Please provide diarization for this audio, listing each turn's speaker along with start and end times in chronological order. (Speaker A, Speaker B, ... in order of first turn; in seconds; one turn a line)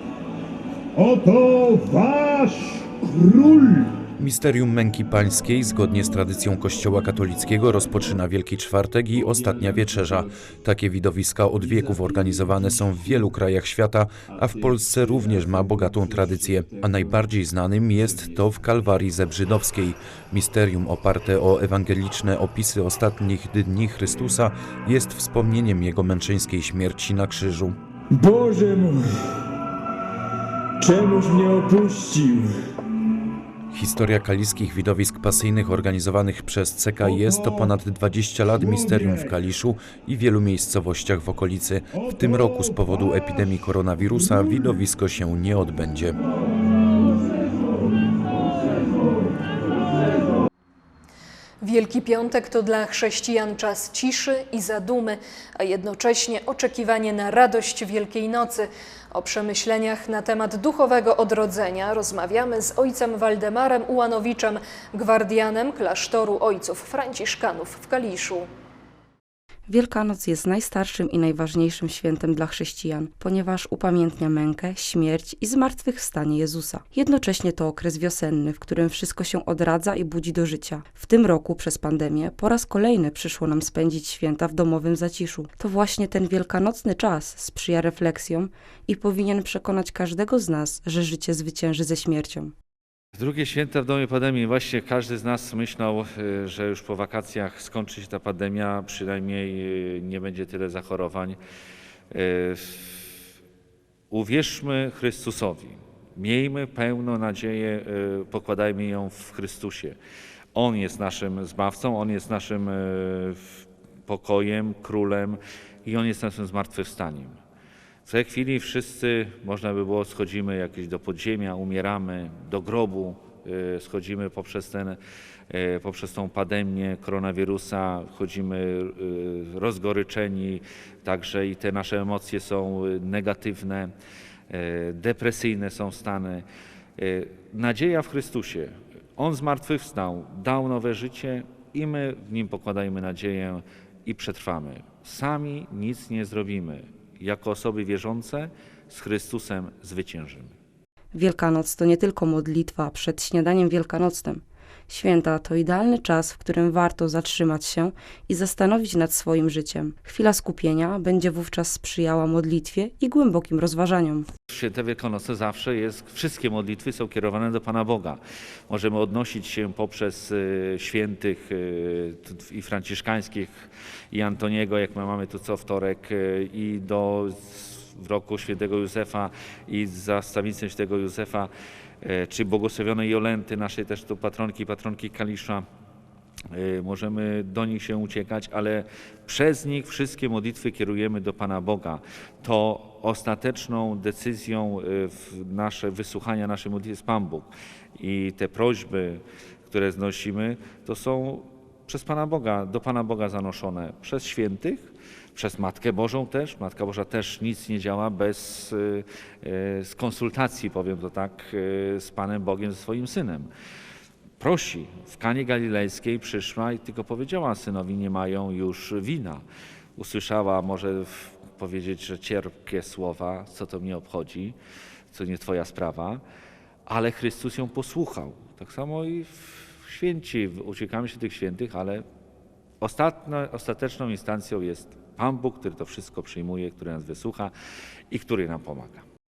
Speaker A: 1.0-3.9
Speaker B: 4.2-27.8
Speaker C: 14.6-16.6
Speaker C: 28.2-29.0
Speaker C: 30.8-32.5
Speaker B: 33.7-46.2
Speaker D: 51.6-68.5
Speaker E: 69.7-92.5
Speaker F: 93.2-101.4
Speaker F: 102.1-103.0
Speaker F: 104.1-110.0
Speaker F: 110.5-113.4
Speaker F: 114.1-117.4
Speaker F: 118.1-125.0
Speaker F: 125.5-133.9
Speaker F: 134.5-136.4
Speaker F: 137.0-150.5
Speaker E: 151.1-164.3
Speaker F: 164.5-181.5
Speaker F: 182.0-185.7
Speaker F: 186.5-213.5
Speaker F: 214.4-219.4
Speaker F: 220.0-224.6
Speaker F: 225.1-226.2
Speaker F: 226.9-232.0
Speaker F: 232.8-237.5
Speaker F: 238.1-239.0